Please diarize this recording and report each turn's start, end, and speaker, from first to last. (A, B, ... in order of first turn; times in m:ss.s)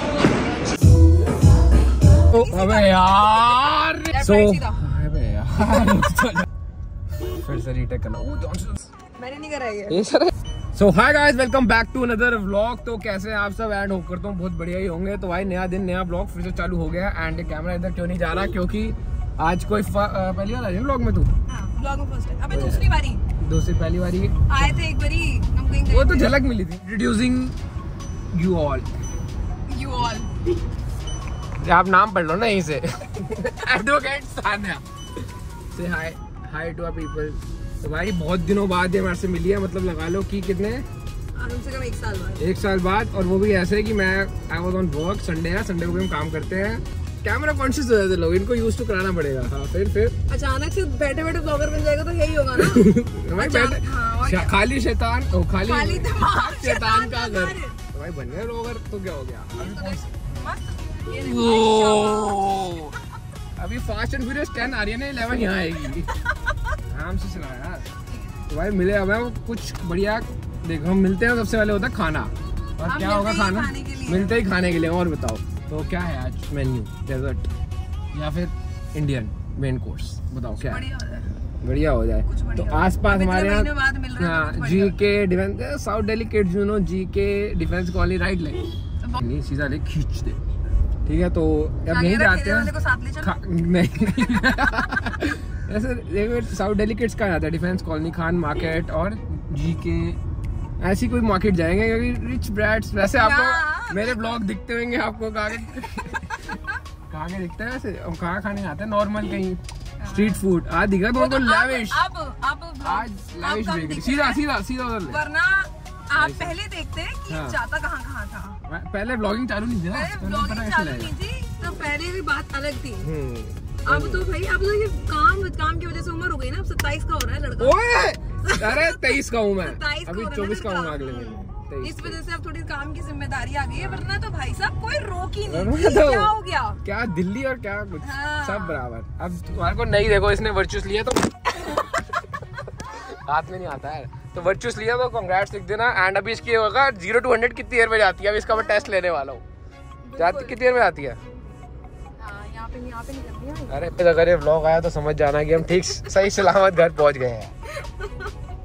0:02.3-0:03.5 A
0:02.3-0:06.5 B
0:04.1-0:04.8 A
0:07.4-0:08.9 B
0:09.2-0:10.0 A
0:09.9-0:21.3 B
0:21.5-0:23.2 A
0:22.5-0:22.8 B
0:23.4-0:24.7 B
0:24.5-0:26.3 A
0:25.9-0:27.6 B
0:28.3-0:28.9 B
0:29.7-0:30.3 A
0:31.6-0:34.8 B
0:35.7-0:40.8 B
0:41.4-0:42.4 A
0:42.4-0:50.1 B
0:50.3-0:54.5 A
0:52.5-1:00.0 B
0:55.6-0:57.8 A
0:59.5-1:02.6 A
1:01.2-1:02.9 B
1:03.6-1:06.1 B
1:06.9-1:07.9 B
1:08.1-1:08.4 A
1:08.5-1:17.5 B
1:12.8-1:14.4 A
1:18.1-1:20.8 B
1:20.6-1:21.4 A
1:21.6-1:28.6 B
1:22.3-1:25.0 A
1:29.2-1:30.4 B
1:31.0-1:32.7 B
1:31.9-1:33.4 A
1:33.2-1:40.2 B
1:34.2-1:34.5 A
1:40.8-1:46.5 B
1:43.1-1:44.4 A
1:46.4-1:46.8 A
1:47.1-1:52.0 B
1:50.0-1:50.4 A
1:51.1-1:54.4 A
1:52.8-1:55.2 B
1:55.0-1:58.6 A
1:56.2-1:56.6 B
1:57.3-1:57.6 B
1:58.7-2:01.1 B
1:59.9-2:03.1 A
2:03.0-2:04.2 B
2:03.8-2:07.8 A
2:07.6-2:12.2 B
2:08.4-2:16.8 A
2:13.7-2:14.1 B
2:15.4-2:21.3 B
2:18.0-2:18.8 A
2:21.7-2:22.0 A
2:22.8-2:29.4 B
2:28.5-2:28.9 A
2:30.0-2:30.6 A
2:30.2-2:31.2 B
2:32.2-2:33.9 A
2:33.7-2:37.5 B
2:37.8-2:38.3 A